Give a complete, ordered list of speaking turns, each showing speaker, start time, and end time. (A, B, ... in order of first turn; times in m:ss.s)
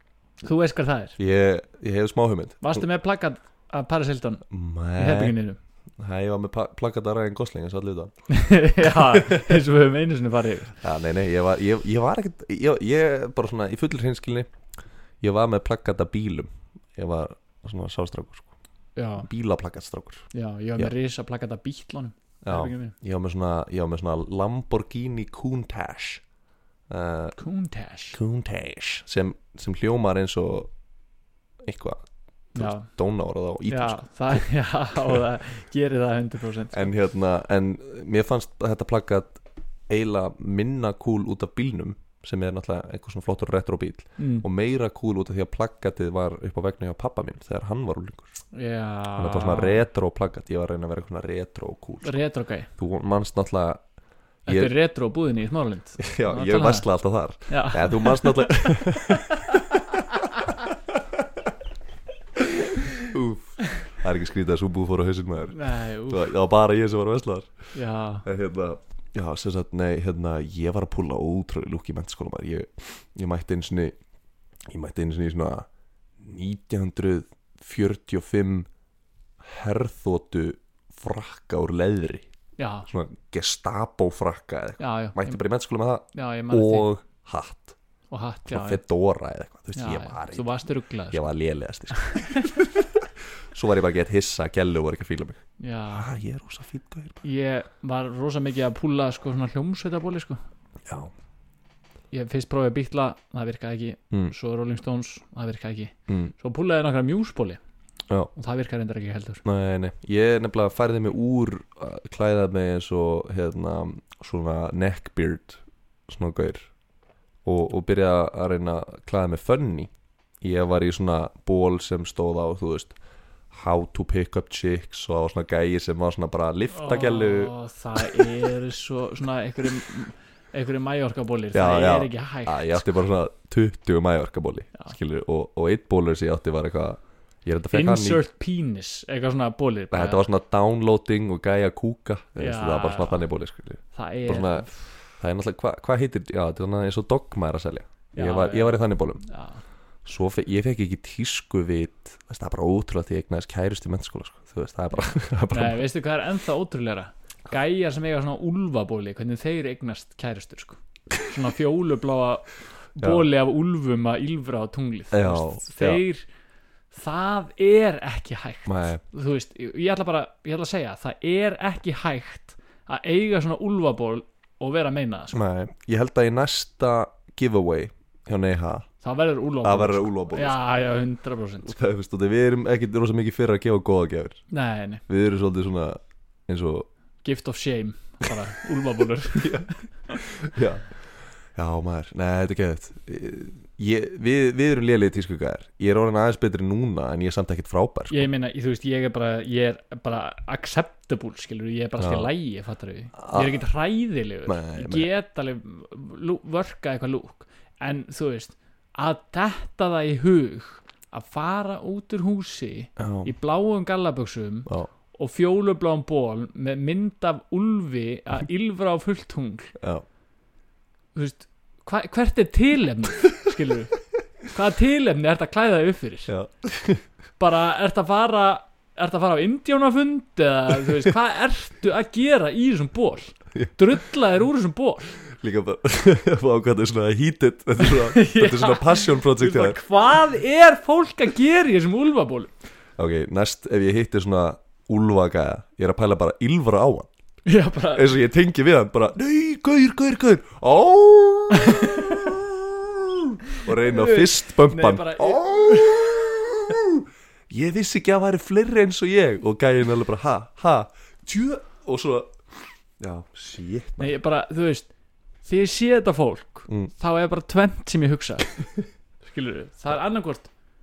0:00.4-0:01.2 A
0:01.2-0:02.8 B
0:02.6-0:04.4 A
0:04.5-0:05.4 B
0:05.0-0:05.6 A
0:06.0-0:08.1 B
0:08.3-0:10.8 A
0:08.8-0:09.6 B
0:10.8-0:14.5 B
0:15.2-0:18.5 B
0:19.0-0:19.3 A
0:19.2-0:20.2 B
0:20.3-0:22.9 A
0:22.4-0:26.2 B
0:26.9-0:27.4 B
0:27.4-0:28.2 A
0:28.1-0:30.7 B
0:31.6-0:32.0 B
0:32.5-0:32.9 A
0:32.5-0:34.4 B
0:33.7-0:36.9 A
0:36.7-0:48.4 B
0:44.2-0:44.4 A
0:48.5-0:49.8 A
0:49.2-0:52.2 B
0:52.0-0:52.7 A
0:52.8-0:53.8 B
0:54.4-0:54.7 B
0:54.4-0:56.9 A
0:56.0-1:00.0 B
0:57.5-0:59.6 A
1:00.2-1:00.5 A
1:00.9-1:01.2 B
1:02.4-1:07.6 B
1:05.5-1:06.3 A
1:07.7-1:08.2 A
1:08.2-1:14.0 B
1:14.7-1:15.7 B
1:16.2-1:18.7 B
1:19.4-1:22.3 B
1:22.6-1:22.9 A
1:22.9-1:27.8 B
1:24.8-1:25.4 A
1:26.1-1:26.9 A
1:28.1-1:28.8 A
1:28.5-1:30.6 B
1:29.7-1:31.2 A
1:31.1-1:35.4 B
1:31.9-1:32.6 A
1:35.6-1:36.1 A
1:35.9-1:37.2 B
1:37.2-1:40.4 A
1:40.8-1:41.1 B
1:42.1-1:47.6 A
1:48.3-1:49.4 A
1:49.4-1:56.7 B
1:57.4-2:02.9 B
2:03.5-2:08.3 B
2:06.7-2:12.8 A
2:11.5-2:18.2 B
2:17.7-2:20.2 A
2:19.9-2:29.2 B
2:22.4-2:23.3 A
2:23.9-2:24.8 A
2:28.1-2:29.6 A
2:30.0-2:35.8 B
2:35.5-2:46.2 A
2:43.0-2:43.2 B
2:45.1-2:46.0 B
2:46.9-2:55.4 A
2:48.6-2:49.0 B
2:55.3-2:58.9 B
2:59.0-3:01.8 A
2:59.6-3:00.6 B
3:01.6-3:04.4 B
3:04.5-3:05.0 A
3:05.1-3:06.9 B
3:07.2-3:10.2 A
3:09.3-3:10.9 B
3:11.5-3:18.3 B
3:18.1-3:39.7 A
3:22.0-3:22.3 B
3:23.2-3:23.6 B
3:24.4-3:25.1 B
3:33.0-3:33.3 B
3:39.8-3:40.0 B
3:41.1-3:46.3 A
3:46.3-3:47.0 B
3:47.4-3:55.1 A
3:55.3-3:59.8 B
3:57.8-4:02.5 A
4:03.0-4:07.1 B
4:07.4-4:08.1 A
4:07.9-4:22.4 B
4:11.5-4:12.3 A
4:13.6-4:16.2 A
4:23.0-4:24.2 B
4:24.0-4:24.9 A
4:25.4-4:28.6 A
4:29.2-4:30.5 A